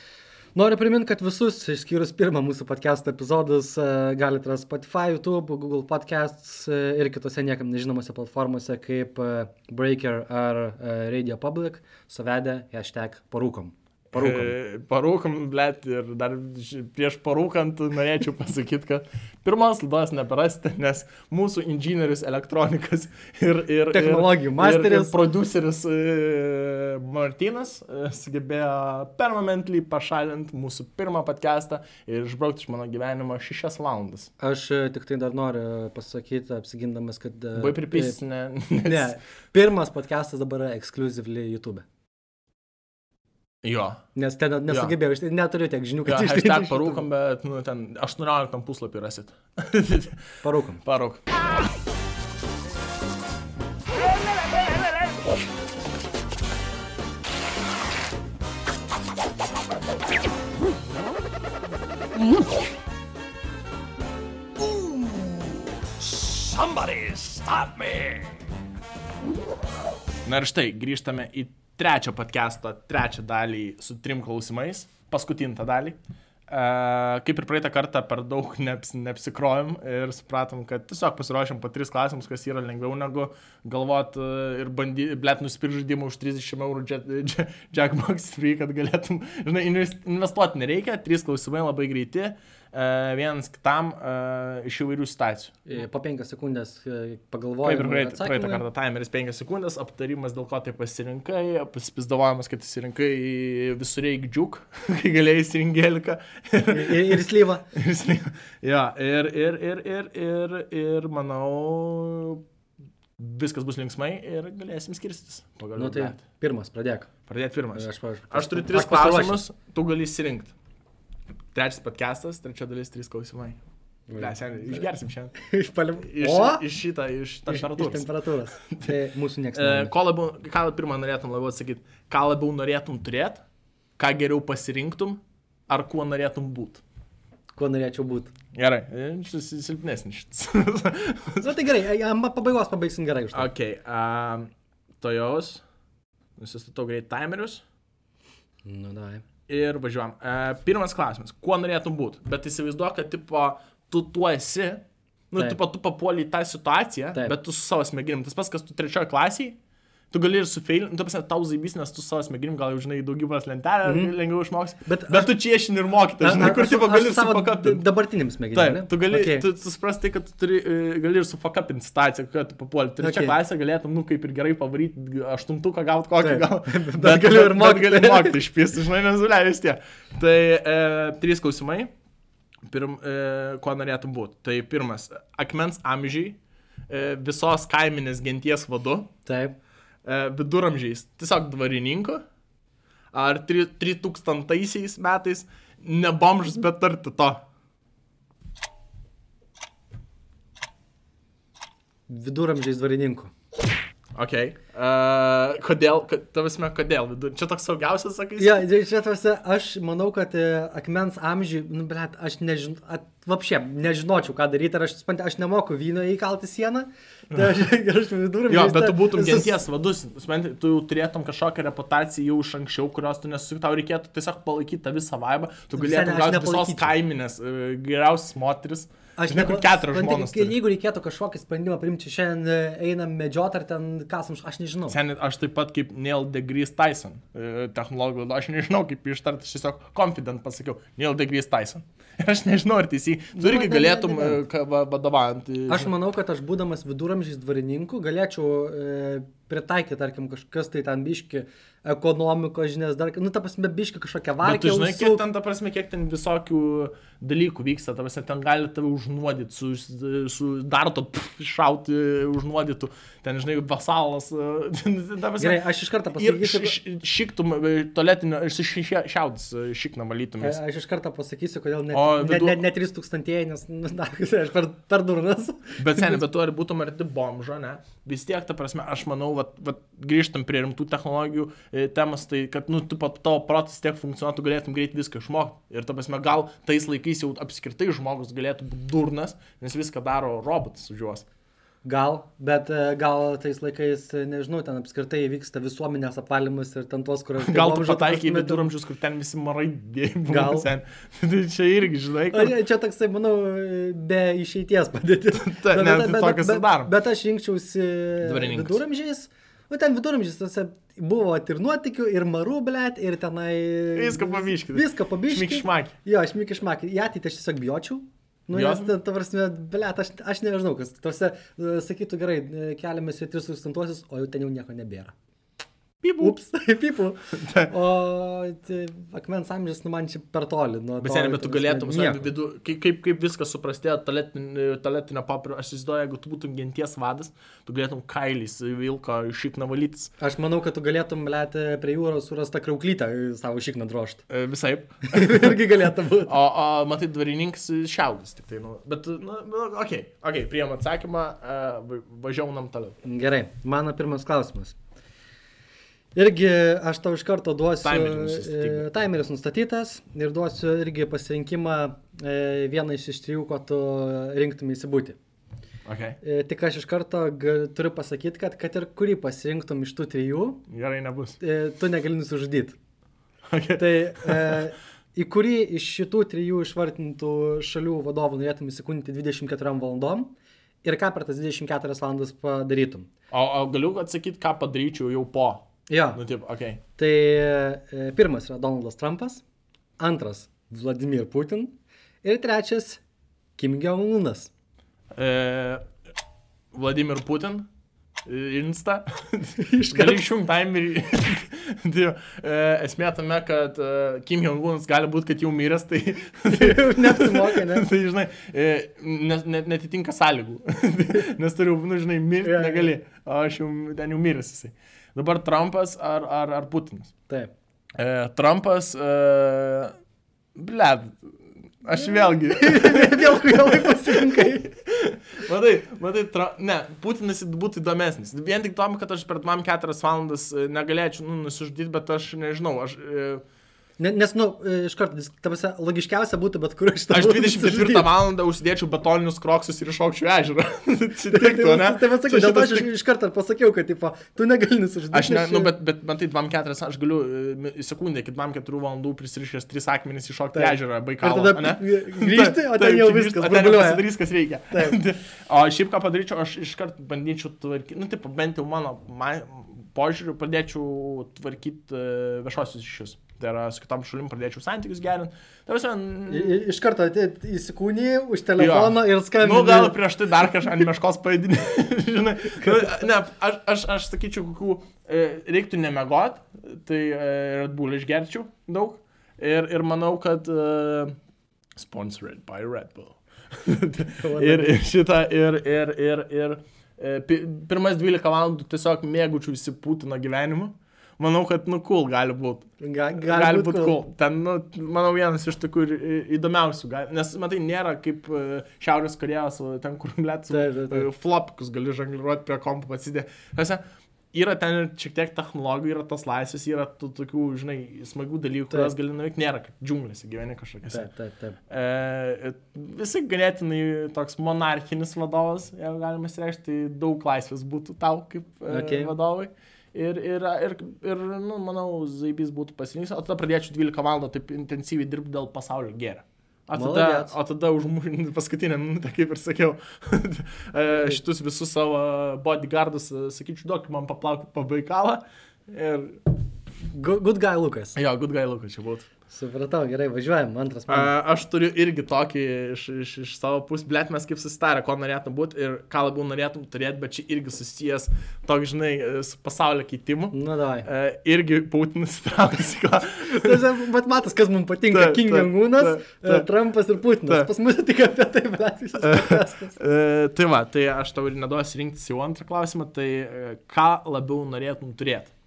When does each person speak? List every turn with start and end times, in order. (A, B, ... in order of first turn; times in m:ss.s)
0:00.6-0:14.5 A
0:14.1-0:34.3 B
0:23.9-0:25.2 A
0:34.4-0:38.2 A
0:37.5-0:39.2 B
0:38.8-0:41.8 A
0:43.6-0:44.0 B
0:44.2-0:47.0 A
0:44.7-0:44.9 B
0:46.0-0:51.2 B
0:50.4-0:50.8 A
1:06.7-1:08.2 B
1:10.2-1:16.0 B
1:16.5-1:35.7 B
1:35.7-1:38.6 A
1:37.6-1:52.4 B
1:46.7-1:47.6 A
1:53.2-1:56.2 B
1:55.8-1:57.1 A
1:57.3-2:00.5 B
1:57.7-1:59.4 A
2:01.6-2:03.6 B
2:04.1-2:06.6 A
2:04.2-2:05.4 B
2:06.0-2:08.9 B
2:07.5-2:09.9 A
2:09.6-2:13.4 B
2:14.0-2:16.8 B
2:17.6-2:18.3 A
2:18.6-2:21.5 B
2:21.4-2:23.5 A
2:23.3-2:25.6 B
2:26.4-2:27.6 B
2:28.6-2:29.2 A
2:29.5-2:39.6 B
2:40.1-2:47.8 B
2:43.8-2:44.2 A
2:44.8-2:45.3 A
2:46.2-2:49.4 A
2:48.5-3:01.9 B
2:53.0-2:53.4 A
2:56.2-2:58.4 A
3:02.7-3:06.4 B
3:06.9-3:09.1 B
3:09.3-3:09.6 A
3:10.0-3:12.2 B
3:13.1-3:17.4 B
3:22.1-3:23.3 A
3:24.2-3:28.7 B
3:28.4-3:39.6 A
3:38.5-3:50.6 B
3:45.7-3:46.9 A
3:49.2-3:55.0 A
3:54.9-4:05.9 B
4:03.4-4:04.4 A
4:05.7-4:15.2 A
4:14.4-4:30.6 B
4:25.4-4:26.8 A
4:30.4-4:36.2 A
4:31.9-4:32.6 B
4:35.8-4:51.3 B
4:51.8-4:58.7 A
4:57.4-5:02.6 B
5:00.3-5:00.7 A
5:02.3-5:25.1 A
5:05.3-5:06.9 B
5:08.2-5:08.8 B
5:13.9-5:15.9 B
5:18.5-5:18.9 B
5:26.0-5:26.4 B
5:26.2-5:32.3 A
5:27.4-5:27.7 B
5:31.0-5:40.1 B
5:40.2-5:44.2 A
5:44.3-5:45.6 B
5:45.1-5:46.3 A
5:46.2-5:53.0 B
5:53.0-5:54.8 A
5:56.1-6:05.2 A
5:57.8-5:58.9 B
6:05.9-6:06.2 B
6:06.2-6:10.6 A
6:10.7-6:11.4 B
6:11.4-6:12.8 A
6:13.5-6:14.6 B
6:13.8-6:20.3 A
6:20.8-6:23.1 A
6:23.3-6:26.8 B
6:25.9-6:26.2 A
6:27.0-6:29.4 A
6:30.0-6:33.0 A
6:33.6-6:34.5 A
6:35.1-6:35.8 B
6:36.7-6:37.7 B
6:38.3-6:57.1 B
6:39.6-6:40.3 A
6:46.5-6:47.9 A
6:52.4-6:52.9 A
6:58.0-7:00.0 B
7:00.6-7:13.4 B
7:02.0-7:04.7 A
7:14.0-7:18.1 A
7:17.1-7:22.9 B
7:21.3-7:25.7 A
7:25.1-7:46.6 B
7:30.5-7:34.1 A
7:34.7-7:35.0 A
7:46.3-7:50.0 A
7:48.6-8:01.2 B
7:52.6-7:52.9 A
8:01.8-8:31.1 B
8:04.2-8:04.8 A
8:12.8-8:14.0 A
8:20.5-8:21.1 A
8:30.9-8:31.6 A
8:31.7-8:56.2 B
8:38.7-8:39.1 A
8:46.8-8:47.3 A
8:50.9-8:51.2 A
8:56.9-8:58.0 A
8:58.0-8:59.1 B
8:59.3-9:01.1 A
9:00.9-9:13.6 B
9:10.3-9:10.9 A
9:13.2-9:19.8 A
9:14.9-9:16.5 B
9:19.0-9:25.3 B